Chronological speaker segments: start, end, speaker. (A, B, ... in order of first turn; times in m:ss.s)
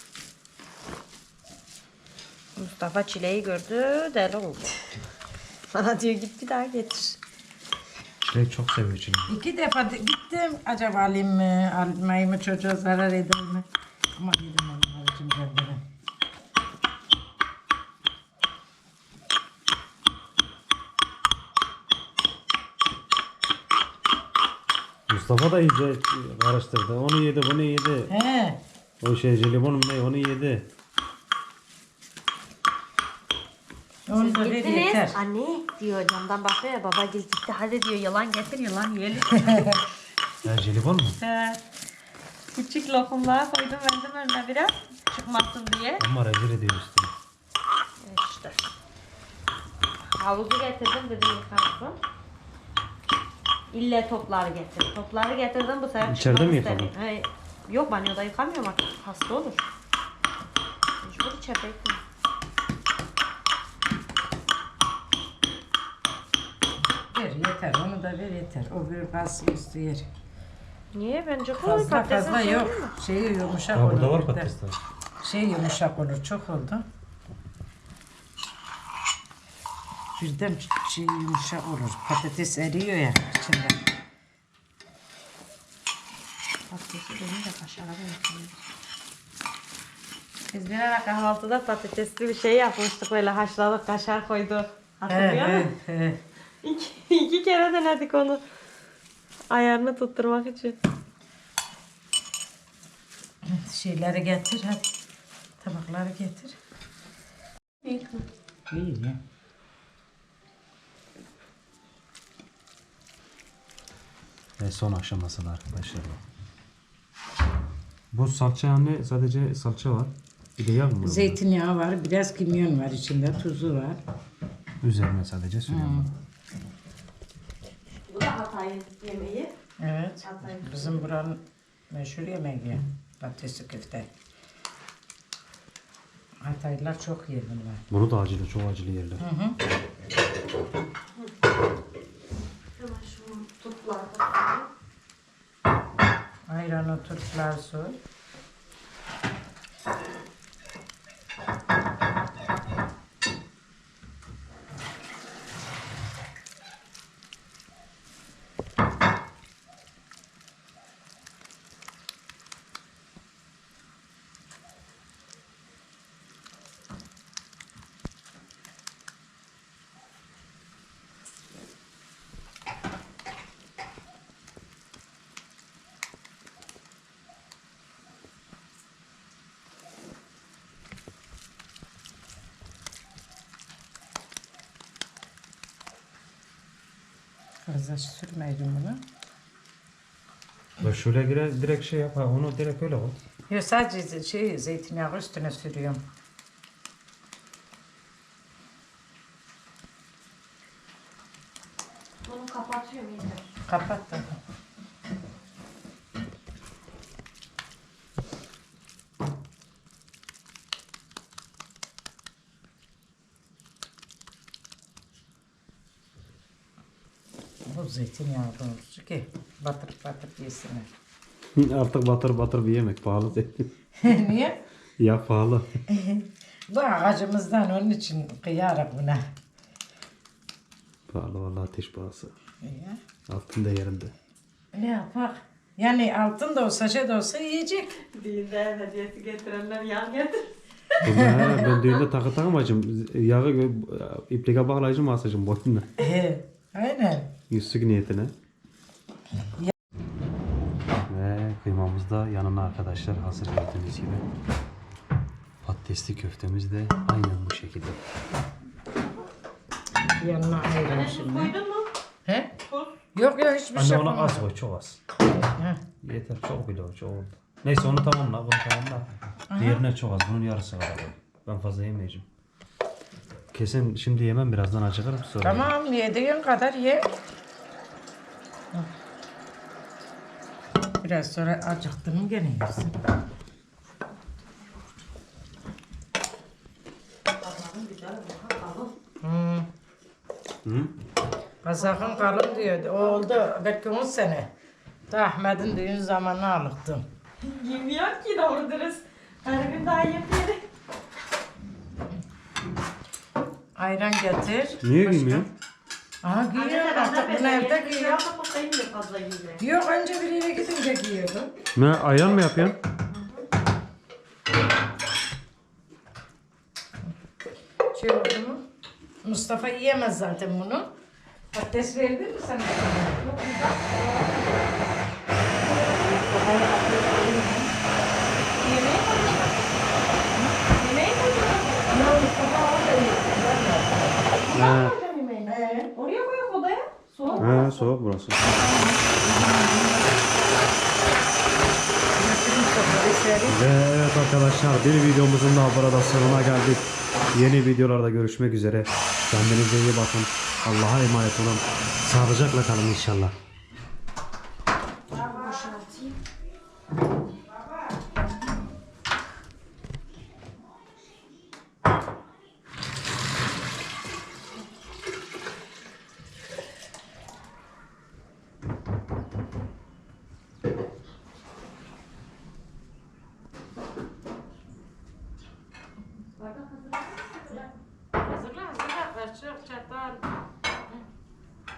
0:02.6-0:04.8 A
0:05.7-0:07.2 A
0:08.2-0:09.3 B
0:09.3-0:15.8 C
0:25.1-0:28.1 B
0:28.1-0:28.6 C
0:29.0-0:30.7 B
0:34.1-0:35.2 C
0:34.1-0:39.8 A
0:39.4-0:39.8 C
0:40.4-0:41.2 B
0:41.2-0:41.6 A
0:42.5-0:46.0 A
0:46.0-0:47.1 B
0:48.0-0:48.6 A
0:50.2-0:52.0 A
0:53.7-0:59.6 A
0:56.0-0:56.9 B
1:01.0-1:02.0 A
1:07.1-1:10.1 C
1:10.9-1:12.9 A
1:11.6-1:14.5 C
1:13.7-1:14.8 B
1:15.2-1:16.8 C
1:20.2-1:23.8 C
1:26.7-1:28.6 A
1:30.5-1:35.7 A
1:35.1-1:36.2 C
1:36.6-1:38.4 A
1:39.5-1:40.8 A
1:43.4-1:44.9 C
1:45.6-1:46.6 C
1:47.8-1:48.2 A
1:48.7-1:49.2 C
1:54.6-1:56.2 B
1:58.1-2:01.4 B
2:01.0-2:04.0 C
2:04.8-2:06.1 B
2:05.7-2:06.1 C
2:08.0-2:09.5 A
2:09.8-2:14.1 C
2:10.2-2:11.1 A
2:16.4-2:17.8 C
2:17.9-2:19.2 B
2:19.2-2:19.6 C
2:22.8-2:24.7 A
2:26.5-2:28.0 C
3:07.6-3:09.0 C
3:10.8-3:13.2 B
3:13.5-3:16.0 C
3:22.2-3:23.5 A
3:23.7-3:24.4 C
3:37.6-3:40.9 C
3:41.5-3:44.1 B
3:44.0-3:44.6 C
3:45.0-3:45.8 B
3:45.9-3:49.2 C
3:51.1-3:52.3 B
3:52.6-3:53.0 C
3:53.3-3:54.1 B
3:54.7-3:58.0 C
3:58.0-4:00.5 A
4:01.0-4:01.7 C
4:01.0-4:05.9 B
4:06.0-4:07.3 C
4:07.5-4:08.3 B
4:11.1-4:14.2 B
4:15.6-4:18.0 B
4:20.2-4:21.5 C
4:20.8-4:21.9 A
4:22.2-4:22.5 C
4:22.6-4:22.9 A
4:23.1-4:24.5 C
4:23.7-4:25.0 B
4:26.0-4:32.3 B
4:29.5-4:29.8 C
4:33.5-4:35.7 B
4:35.4-4:37.1 C
4:41.0-4:42.9 C
4:47.4-4:48.9 A
4:49.2-4:49.7 C
4:50.6-4:50.9 B
4:51.6-4:54.5 C
4:51.8-4:53.4 A
4:55.1-4:57.0 C
4:57.4-5:00.6 A
5:03.8-5:05.5 C
5:04.8-5:05.5 B
5:06.2-5:08.2 C
5:06.6-5:09.6 A
5:09.6-5:11.5 C
5:11.7-5:12.8 B
5:17.9-5:18.6 C
5:19.2-5:20.9 C
5:21.5-5:24.0 C
5:25.7-5:27.4 A
5:26.3-5:27.6 C
5:28.6-5:29.6 A
5:30.7-5:32.0 A
5:31.9-5:34.2 C
5:34.4-5:37.7 A
5:34.5-5:35.0 B
5:35.4-5:35.9 C
5:37.4-5:38.6 B
5:42.2-5:43.6 C
5:43.4-5:53.3 B
5:55.1-5:56.2 A
6:16.4-6:17.7 A
6:18.2-6:20.2 C